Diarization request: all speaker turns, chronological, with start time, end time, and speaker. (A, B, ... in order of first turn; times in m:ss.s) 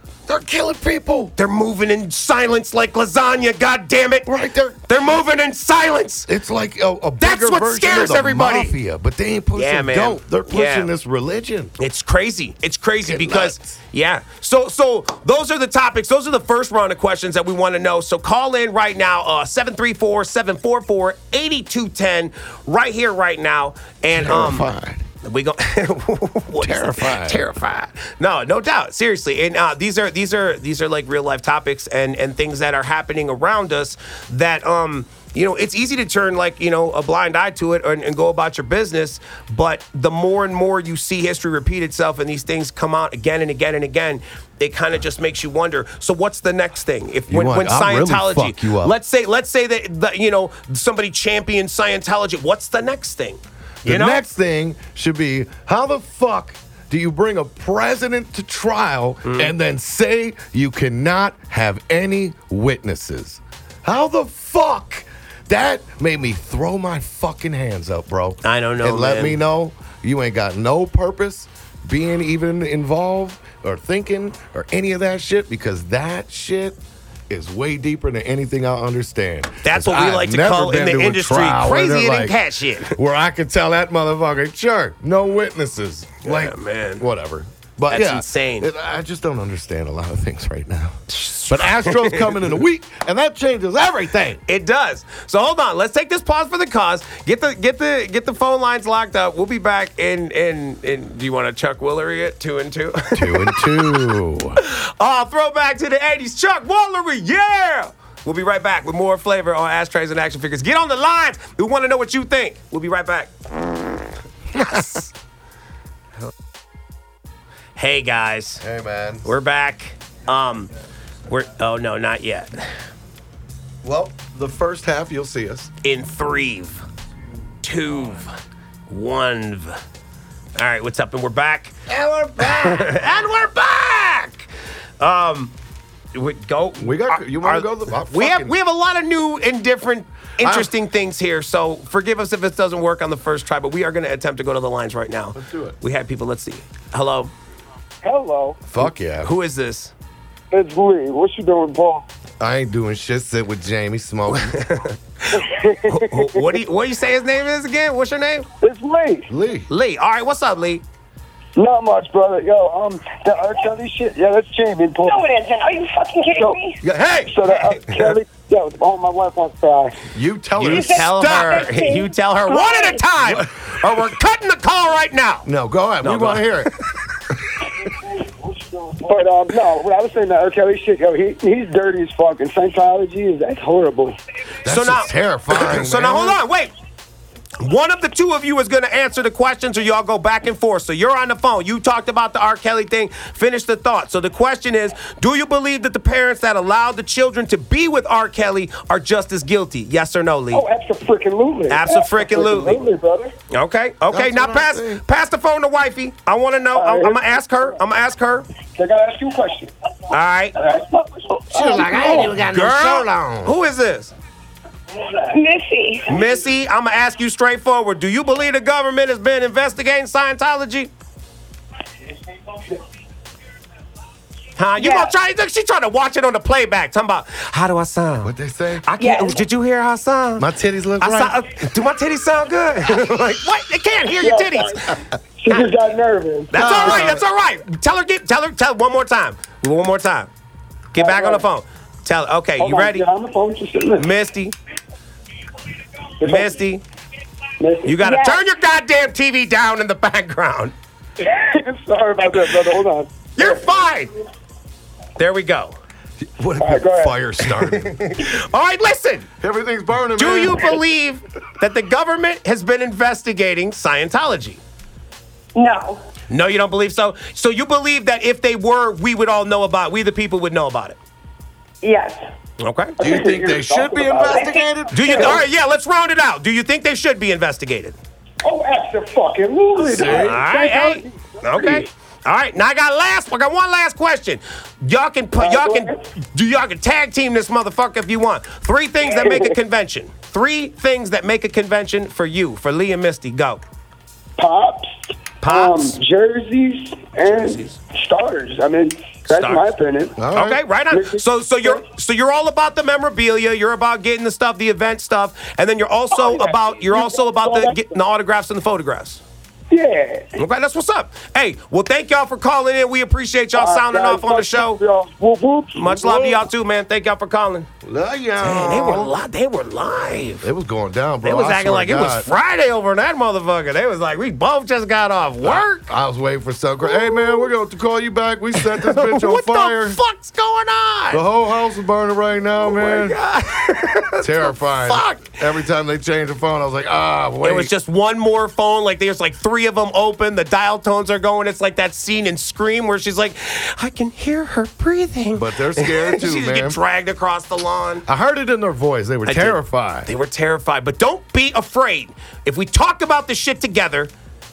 0:00.3-0:01.3 A
0:01.4-0:04.3 B
0:04.2-0:05.0 A
0:04.9-0:06.3 B
0:06.3-0:11.8 A
0:07.2-0:08.8 B
0:09.5-0:10.9 B
0:11.8-0:24.7 B
0:13.0-0:13.8 A
0:24.1-0:25.0 A
0:25.2-0:54.2 B
0:26.6-0:27.4 A
0:47.3-0:48.9 A
0:53.8-1:34.4 A
0:59.2-0:59.5 B
1:08.4-1:09.4 B
1:19.6-1:23.0 B
1:26.2-1:27.0 B
1:27.9-1:28.7 B
1:31.1-1:32.3 B
1:34.5-1:53.3 B
1:43.1-1:44.6 A
1:54.5-1:55.1 B
1:57.8-1:58.6 B
1:58.6-1:59.3 A
1:59.2-2:00.7 B
2:01.3-2:02.7 B
2:03.8-2:05.7 A
2:05.8-2:06.8 B
2:07.6-2:08.3 B
2:08.9-2:09.8 B
2:10.6-2:11.8 B
2:11.9-2:13.0 A
2:12.4-2:14.5 B
2:15.0-2:15.5 B
2:16.1-2:27.3 B
2:16.8-2:18.6 A
2:20.4-2:20.7 A
2:25.3-2:25.8 A
2:28.0-2:28.7 C
2:28.7-2:29.3 A
2:29.2-2:29.9 B
2:30.5-2:32.0 C
2:32.4-2:34.6 A
2:34.3-2:38.5 B
2:35.4-2:36.5 C
2:38.6-2:39.3 C
2:39.3-2:39.7 A
2:39.7-2:40.8 B
2:41.6-2:45.2 C
2:45.0-2:46.8 D
2:46.4-2:46.6 C
2:46.8-2:47.3 A
2:47.3-2:50.0 C
2:50.1-2:51.4 A
2:50.6-2:55.5 B
2:50.6-2:53.0 D
2:53.2-2:54.0 A
2:55.4-2:56.7 A
2:56.0-2:56.7 B
2:58.8-3:04.2 C
3:04.6-3:06.4 A
3:04.6-3:06.7 B
3:07.6-3:20.6 B
3:20.5-3:23.3 C
3:21.7-3:22.8 B
3:23.5-3:28.4 B
3:24.1-3:25.0 A
3:26.7-3:27.7 C
3:28.8-3:29.7 C
3:30.1-3:30.5 B
3:30.5-3:32.4 C
3:31.5-3:33.5 A
3:32.4-3:34.1 B
3:35.2-3:36.2 D
3:36.1-3:40.9 B
3:44.6-3:50.5 B
3:44.8-3:45.1 D
3:48.2-3:48.8 A
3:49.0-3:49.4 D
3:50.4-3:51.4 A
3:51.0-3:54.9 B
3:54.2-3:54.9 C
3:55.4-3:57.0 C
3:56.5-4:00.3 B
3:56.5-3:57.2 A
4:00.9-4:03.0 B
4:01.0-4:01.4 C
4:02.6-4:04.1 C
4:04.0-4:04.5 B
4:06.2-4:06.5 C
4:06.2-4:06.8 B
4:07.6-4:08.0 C
4:07.8-4:10.7 B
4:08.0-4:08.4 D
4:11.2-4:13.7 C
4:13.4-4:14.1 B
4:15.2-4:15.7 B
4:16.2-4:18.0 A
4:16.6-4:17.2 C
4:17.5-4:19.3 B
4:19.4-4:20.8 A
4:20.2-4:24.6 B
4:25.5-4:26.0 D
4:26.3-4:31.0 B
4:31.8-4:32.3 D
4:32.6-4:32.9 B
4:33.0-4:34.5 C
4:33.0-4:35.4 A
4:34.3-4:34.6 D
4:34.9-4:38.0 B
4:35.1-4:35.3 C
4:38.4-4:41.8 C
4:39.8-4:40.4 A
4:40.1-4:53.6 B
4:45.4-4:46.0 C
4:49.0-4:49.5 C
4:54.4-5:00.2 C
4:55.4-4:56.0 B
4:57.3-4:57.8 B
4:59.3-4:59.7 B
5:00.2-5:00.6 A
5:00.3-5:09.2 B
5:00.9-5:01.8 C
5:06.1-5:07.8 C
5:09.7-5:10.3 C
5:10.4-5:14.8 B
5:13.6-5:16.4 C
5:15.7-5:17.7 B
5:17.8-5:19.2 A
5:18.4-5:20.5 B
5:20.4-5:22.3 A
5:21.2-5:25.9 B
5:25.4-5:30.0 A
5:28.6-5:31.2 B
5:31.1-5:33.2 A
5:32.6-5:35.4 B
5:34.2-5:37.7 A
5:37.4-5:48.0 B
5:45.3-5:46.8 A
5:48.0-5:50.1 A
5:49.2-5:54.1 B